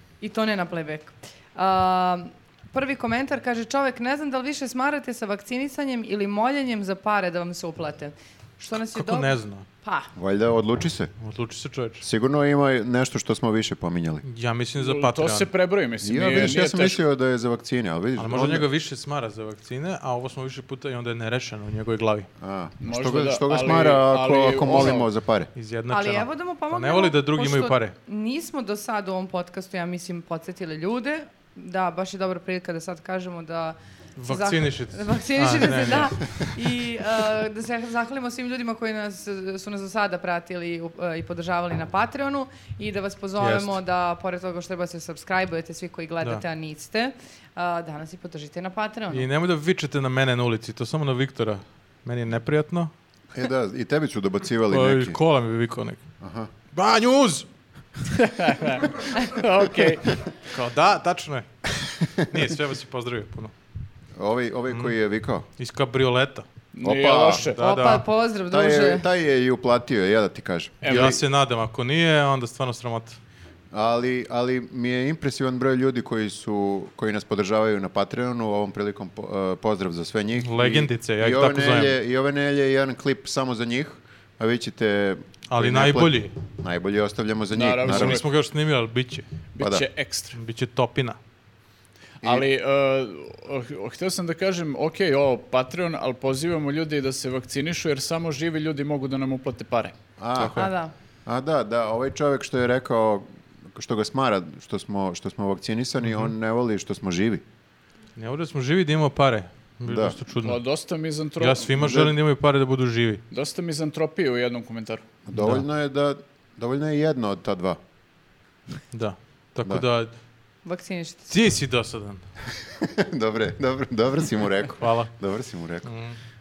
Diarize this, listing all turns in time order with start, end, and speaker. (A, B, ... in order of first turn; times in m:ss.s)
0:00.2-0:10.1 A
0:08.9-0:09.7 B
0:10.2-0:11.1 C
0:11.2-0:12.1 B
0:12.0-0:14.2 C
0:14.2-0:15.5 B
0:14.8-0:17.0 D
0:16.0-0:18.7 C
0:18.2-0:22.3 B
0:22.4-0:25.5 C
0:22.8-0:25.1 D
0:25.6-0:28.0 B
0:25.9-0:49.3 A
0:34.2-0:36.6 B
0:43.4-0:43.8 B
0:49.1-0:52.9 B
0:53.4-0:55.2 C
0:54.7-0:56.0 B
0:56.2-0:56.5 C
0:56.7-0:57.5 B
0:58.2-1:00.1 D
1:00.5-1:03.5 B
1:04.2-1:05.5 C
1:05.6-1:06.5 B
1:06.7-1:07.6 D
1:06.8-1:07.5 C
1:07.4-1:08.1 B
1:07.6-1:09.1 A
1:08.5-1:11.1 C
1:10.8-1:11.2 D
1:10.9-1:13.2 B
1:13.7-1:28.2 C
1:20.4-1:22.0 B
1:25.5-1:26.3 B
1:27.5-1:28.3 D
1:27.8-1:29.3 B
1:29.5-1:30.4 D
1:29.6-1:29.9 C
1:30.3-1:31.2 B
1:32.2-1:39.9 D
1:40.2-1:40.6 C
1:40.4-1:40.7 B
1:40.6-1:40.9 A
1:41.3-1:47.4 C
1:46.0-1:46.3 B
1:48.2-1:50.6 B
1:49.8-1:50.2 C
1:50.4-1:52.1 D
1:51.4-1:53.2 B
1:51.8-1:52.1 C
1:53.3-1:55.0 D
1:55.3-1:57.8 C
1:55.4-1:55.6 B
1:58.9-2:00.1 B
2:00.6-2:01.3 A
2:01.3-2:02.2 B
2:02.6-2:05.9 C
2:04.8-2:05.1 B
2:05.8-2:06.2 B